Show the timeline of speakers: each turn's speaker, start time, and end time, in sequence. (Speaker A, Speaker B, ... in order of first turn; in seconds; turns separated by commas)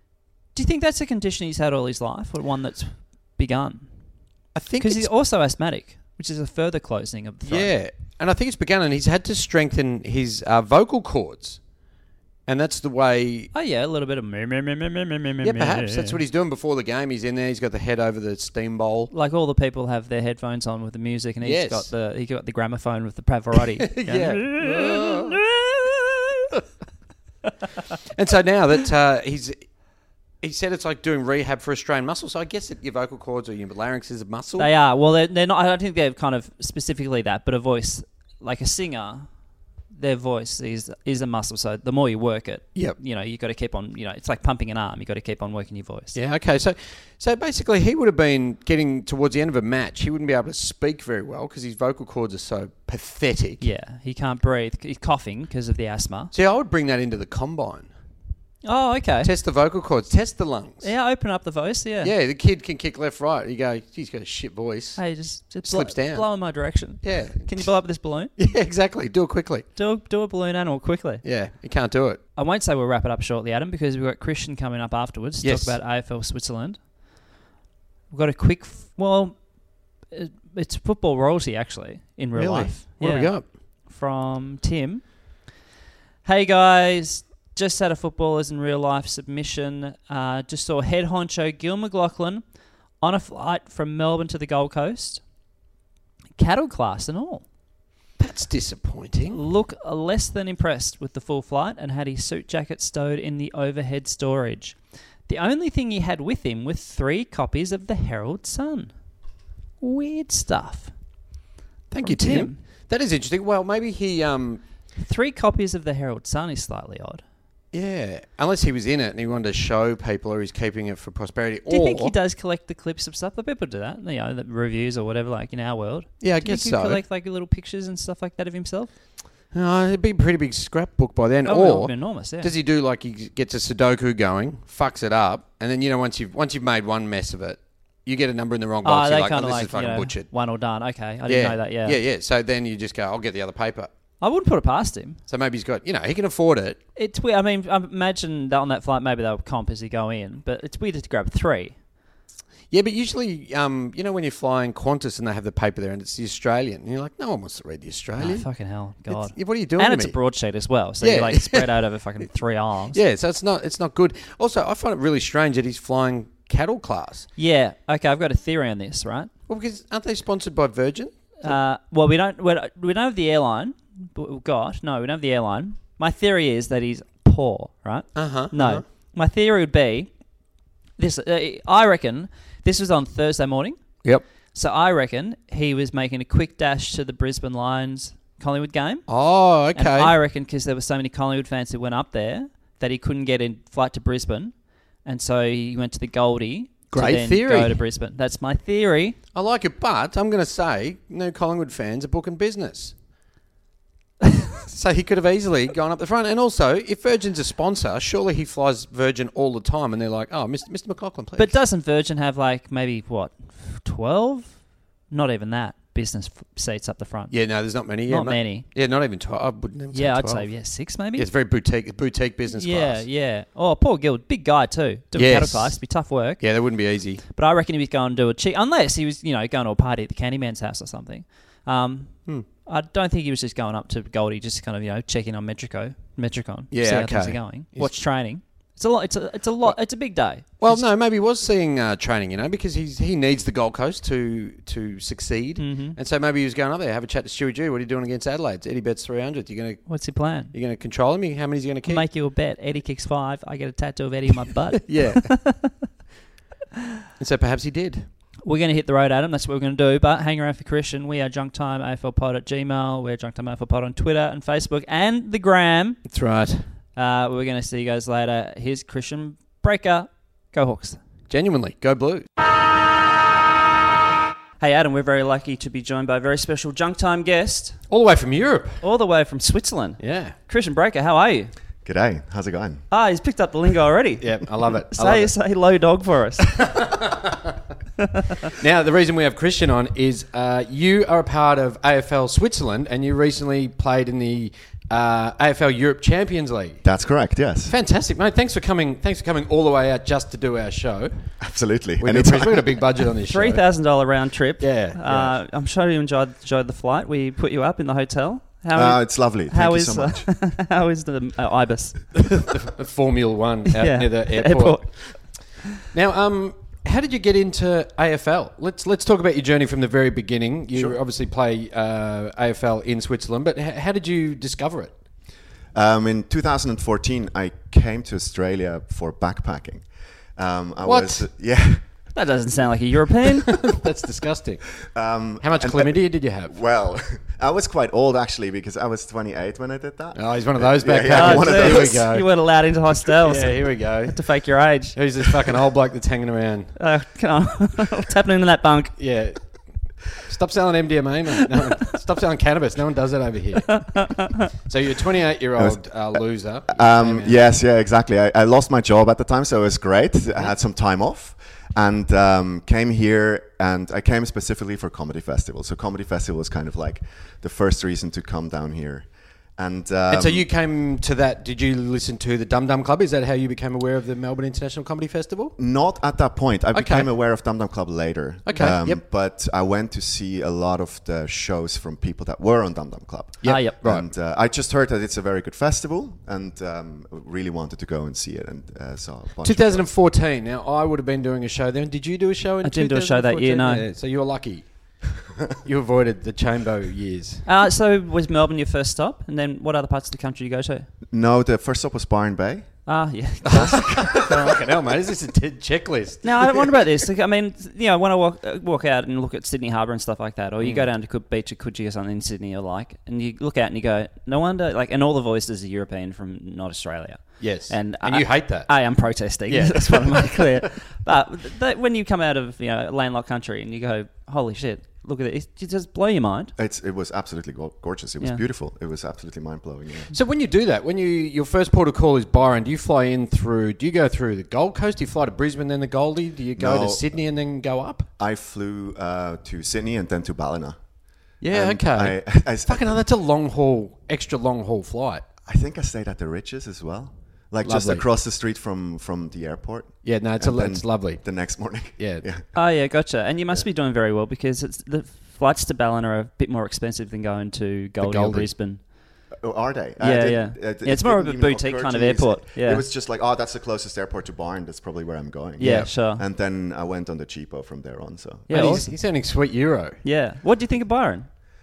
Speaker A: 0.6-3.9, Speaker B: 4.5-5.1, Speaker A: 4.8-7.7, Speaker B: 7.4-11.6, Speaker B: 12.5-13.5, Speaker A: 13.5-16.2, Speaker B: 15.4-19.1, Speaker A: 19.1-26.5, Speaker B: 21.4-21.9, Speaker B: 23.9-25.4, Speaker B: 28.1-29.7, Speaker B: 30.4-34.7, Speaker A: 34.6-39.3, Speaker A: 39.9-46.2, Speaker B: 46.1-53.6, Speaker A: 53.6-56.3, Speaker B: 56.3-57.9, Speaker A: 58.6-59.3, Speaker B: 59.2-60.9, Speaker A: 60.8-62.1, Speaker B: 62.0-65.0, Speaker A: 65.0-68.3, Speaker B: 65.6-66.3, Speaker B: 67.0-67.7, Speaker B: 68.4-69.7, Speaker A: 69.8-71.2, Speaker B: 71.2-72.2, Speaker A: 72.4-76.8, Speaker B: 75.4-75.8, Speaker A: 78.1-79.4, Speaker A: 80.1-85.0, Speaker B: 82.4-83.5, Speaker A: 86.2-92.4, Speaker A: 93.0-95.2, Speaker A: 96.4-97.4, Speaker B: 98.2-99.4, Speaker A: 99.3-108.9, Speaker A: 109.8-110.9, Speaker B: 111.9-114.6, Speaker A: 112.0-112.6, Speaker A: 115.0-117.2, Speaker B: 117.7-122.2, Speaker A: 121.7-128.9, Speaker B: 126.2-127.0, Speaker B: 129.5-140.3, Speaker A: 131.4-132.5, Speaker A: 138.8-142.0, Speaker B: 141.3-143.9, Speaker A: 144.2-145.2, Speaker B: 145.3-146.8, Speaker A: 147.0-151.8, Speaker B: 152.7-158.5, Speaker A: 158.2-163.0, Speaker B: 159.1-160.2, Speaker B: 161.0-161.7, Speaker B: 162.9-167.3, Speaker A: 167.4-169.3, Speaker B: 169.5-171.6, Speaker A: 171.4-180.1, Speaker B: 178.2-178.8, Speaker A: 181.0-183.8, Speaker A: 184.5-189.1, Speaker B: 189.1-190.2, Speaker A: 189.7-194.5, Speaker A: 195.1-199.2, Speaker B: 196.9-197.8, Speaker B: 199.3-202.9, Speaker B: 204.7-211.6, Speaker A: 211.4-214.6, Speaker A: 215.1-217.3, Speaker B: 217.3-220.5, Speaker A: 217.9-218.7, Speaker A: 219.9-221.3, Speaker B: 221.1-223.1, Speaker A: 222.5-226.4, Speaker B: 225.2-225.9, Speaker B: 226.4-227.2, Speaker A: 227.3-240.9, Speaker B: 236.7-237.9, Speaker B: 240.6-249.9, Speaker A: 245.6-246.0, Speaker A: 249.9-250.5, Speaker B: 250.5-252.0, Speaker A: 251.8-255.8, Speaker B: 254.8-255.3, Speaker B: 257.2-258.1, Speaker A: 258.4-266.0, Speaker B: 266.1-266.7, Speaker A: 267.0-271.0, Speaker B: 271.3-272.3, Speaker A: 274.6-277.8, Speaker B: 277.9-278.8, Speaker A: 278.8-281.5, Speaker B: 280.0-280.4, Speaker C: 281.8-282.9, Speaker A: 282.9-286.7, Speaker B: 284.2-285.4, Speaker B: 286.7-287.5, Speaker A: 288.0-288.5, Speaker B: 288.6-296.8, Speaker C: 296.8-297.8, Speaker B: 297.7-301.3, Speaker C: 301.4-302.8, Speaker B: 302.0-303.6, Speaker A: 303.3-312.2, Speaker B: 304.6-305.4, Speaker C: 308.7-310.3, Speaker B: 312.2-315.2, Speaker A: 313.8-315.6, Speaker B: 315.9-324.9, Speaker C: 320.7-321.0, Speaker C: 325.7-332.0, Speaker B: 330.8-331.3, Speaker A: 332.1-333.6, Speaker B: 333.6-334.8, Speaker C: 334.9-342.1, Speaker B: 335.4-336.6, Speaker B: 340.1-342.3, Speaker A: 341.1-345.0, Speaker B: 343.2-344.3, Speaker B: 344.9-346.8, Speaker A: 346.8-349.0, Speaker B: 349.0-349.6, Speaker B: 350.1-353.9, Speaker A: 353.7-354.3, Speaker B: 354.6-357.4, Speaker C: 355.6-356.2, Speaker C: 356.7-370.4, Speaker B: 370.1-375.6, Speaker C: 375.6-389.9, Speaker B: 376.7-377.1, Speaker B: 378.4-379.0, Speaker B: 383.4-384.1, Speaker A: 383.5-383.8, Speaker B: 389.4-395.0, Speaker A: 392.6-393.9, Speaker B: 395.6-397.5, Speaker A: 397.5-400.9, Speaker C: 401.1-402.8, Speaker A: 402.9-404.3, Speaker B: 403.4-406.7, Speaker C: 403.5-404.4, Speaker A: 406.2-426.5, Speaker B: 410.6-410.9, Speaker B: 417.4-420.4, Speaker C: 426.6-430.1, Speaker B: 430.1-438.1, Speaker C: 436.6-437.1, Speaker C: 438.2-440.8, Speaker C: 441.4-443.0, Speaker B: 441.4-445.2, Speaker C: 445.5-452.6, Speaker B: 447.6-448.1, Speaker B: 450.0-452.3, Speaker A: 452.6-458.9, Speaker B: 458.0-458.5, Speaker C: 459.3-468.9, Speaker A: 460.0-462.9, Speaker B: 465.6-465.9, Speaker A: 465.6-466.2, Speaker A: 468.5-468.9, Speaker B: 468.5-470.0, Speaker A: 470.0-471.3